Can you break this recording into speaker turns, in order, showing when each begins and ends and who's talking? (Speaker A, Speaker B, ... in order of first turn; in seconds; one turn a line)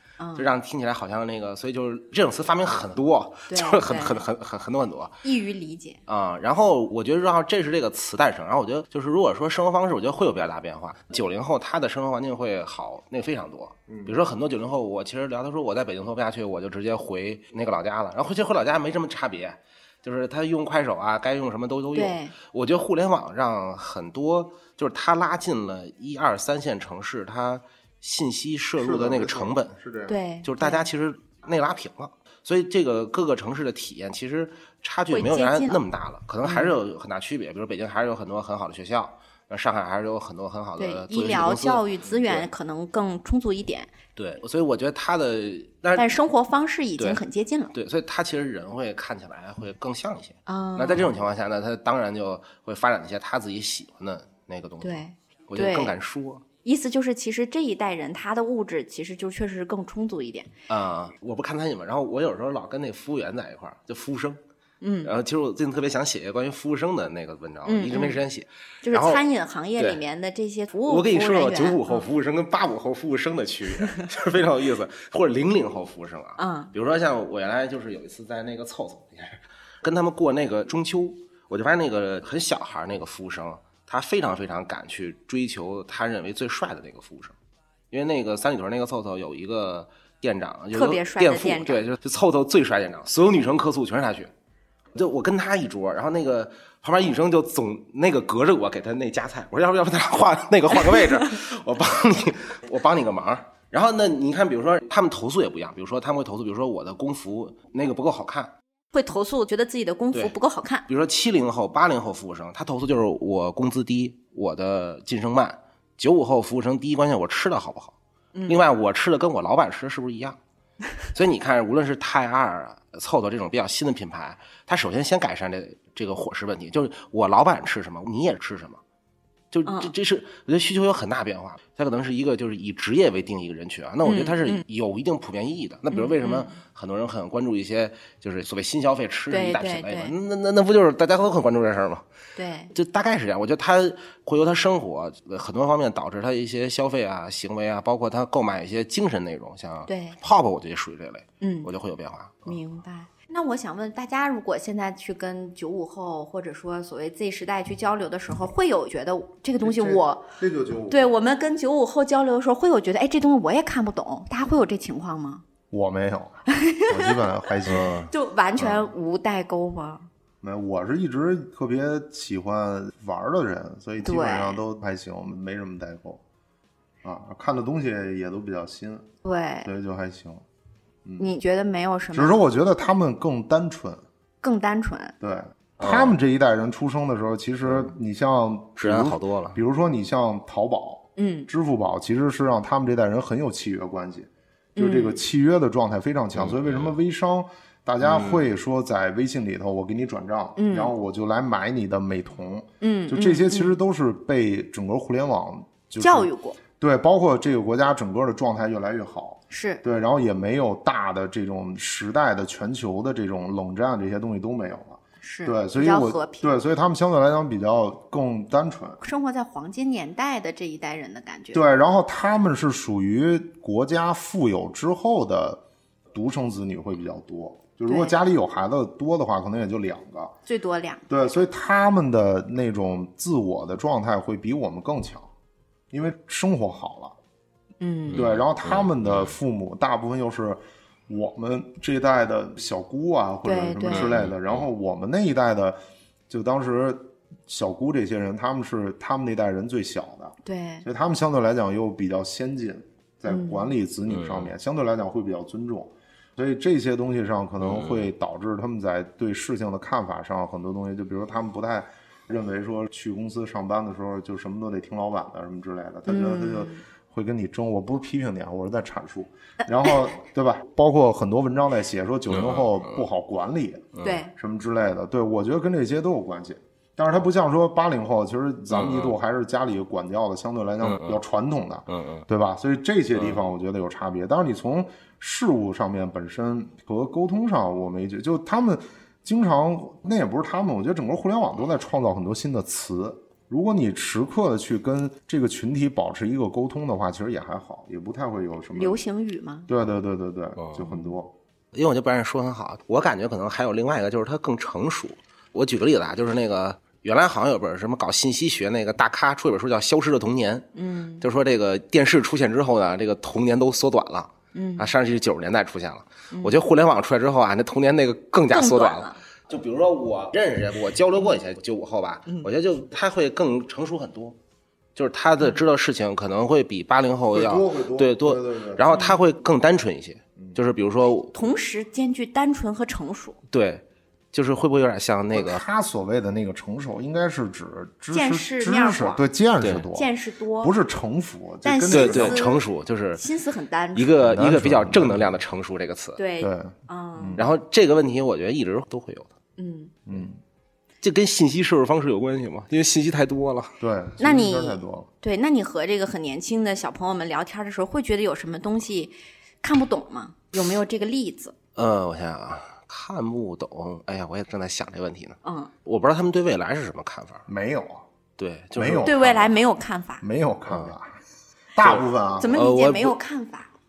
Speaker A: 0.2-0.5
Speaker B: 0.4-5.2
Speaker A: 3.5-4.2
Speaker A: 5.2-6.0
Speaker B: 6.1-29.7
Speaker C: 13.9-14.2
Speaker A: 21.9-22.3
Speaker C: 28.8-30.2
Speaker A: 30.1-30.9
Speaker B: 30.4-42.5
Speaker A: 35.1-35.8
Speaker A: 36.5-36.8
Speaker A: 40.8-43.9
Speaker B: 44.2-46.1
Speaker A: 46.0-47.7
Speaker B: 47.7-56.4
Speaker A: 50.5-51.1
Speaker A: 54.8-56.0
Speaker A: 56.6-60.5
Speaker B: 60.7-64.4
Speaker A: 64.8-65.1
Speaker B: 65.0-69.2
Speaker A: 67.7-68.2
Speaker A: 68.8-72.0
Speaker B: 70.9-87.3
Speaker A: 76.4-76.7
Speaker B: 87.9-94.3
Speaker A: 90.7-91.9
Speaker B: 95.0-108.5
Speaker A: 108.9-110.9
Speaker B: 110.9-118.0
Speaker A: 118.3-118.6
Speaker B: 118.5-120.4
Speaker B: 121.1-128.8
Speaker B: 129.5-142.1
Speaker A: 129.7-129.9
Speaker A: 134.1-134.6
Speaker A: 135.9-136.6
Speaker A: 139.3-140.1
Speaker A: 142.4-142.7
Speaker B: 142.7-152.6
Speaker A: 149.9-150.2
Speaker A: 151.4-151.7
Speaker A: 152.4-160.3
Speaker C: 159.6-161.1
Speaker A: 160.9-165.4
Speaker C: 165.7-168.0
Speaker A: 166.5-167.2
Speaker B: 167.7-168.1
Speaker A: 168.1-170.1
Speaker C: 168.6-168.9
Speaker C: 170.4-176.2
Speaker A: 174.0-174.6
Speaker C: 177.0-179.1
Speaker A: 179.2-179.7
Speaker C: 179.7-180.4
Speaker C: 181.1-181.3
Speaker A: 181.2-182.4
Speaker C: 182.1-184.0
Speaker A: 184.4-185.2
Speaker C: 185.2-219.0
Speaker B: 185.8-186.2
Speaker B: 188.8-189.6
Speaker A: 191.2-191.5
Speaker A: 194.8-195.2
Speaker B: 196.4-196.9
Speaker B: 198.0-198.5
Speaker A: 200.6-200.9
Speaker A: 202.8-203.8
Speaker A: 206.0-206.6
Speaker A: 209.5-209.8
Speaker A: 215.2-216.6
Speaker A: 219.0-221.6
Speaker C: 221.5-225.6
Speaker C: 226.1-230.3
Speaker A: 227.9-228.2
Speaker A: 230.5-231.1
Speaker C: 231.1-235.3
Speaker C: 235.9-237.2
Speaker A: 237.8-238.2
Speaker B: 238.1-239.3
Speaker C: 238.1-299.0
Speaker A: 243.4-244.1
Speaker B: 243.9-244.6
Speaker A: 250.4-250.9
Speaker A: 253.3-253.7
Speaker B: 254.1-254.5
Speaker B: 257.6-258.1
Speaker A: 266.1-266.8
Speaker B: 272.3-272.8
Speaker A: 274.0-274.3
Speaker B: 278.7-279.1
Speaker B: 280.8-281.2
Speaker B: 281.9-282.2
Speaker B: 283.2-283.4
Speaker A: 298.7-299.7
Speaker C: 299.7-301.3
Speaker B: 300.6-300.9
Speaker B: 301.7-310.7
Speaker A: 310.8-311.2
Speaker B: 311.2-324.4
Speaker A: 314.5-314.9
Speaker A: 318.5-319.2
Speaker B: 325.0-331.3
Speaker C: 327.3-328.9
Speaker A: 328.9-329.2
Speaker A: 331.3-333.4
Speaker B: 333.5-335.6
Speaker C: 335.3-342.4
Speaker A: 338.1-339.2
Speaker B: 339.6-339.9
Speaker A: 339.9-340.8
Speaker A: 341.6-344.1
Speaker B: 341.9-343.2
Speaker B: 343.9-346.2
Speaker C: 344.2-345.3
Speaker A: 346.2-347.5
Speaker C: 346.4-347.5
Speaker B: 347.4-349.3
Speaker A: 349.6-349.9
Speaker C: 350.1-350.4
Speaker B: 351.0-353.8
Speaker C: 353.8-355.1
Speaker A: 354.2-361.5
Speaker B: 361.8-367.4
Speaker A: 365.4-365.7
Speaker C: 367.5-368.1
Speaker B: 368.4-369.5
Speaker C: 368.8-369.4
Speaker A: 369.0-370.2
Speaker C: 370.2-371.1
Speaker B: 370.7-370.9
Speaker C: 371.8-372.6
Speaker B: 371.8-373.2
Speaker A: 372.4-373.7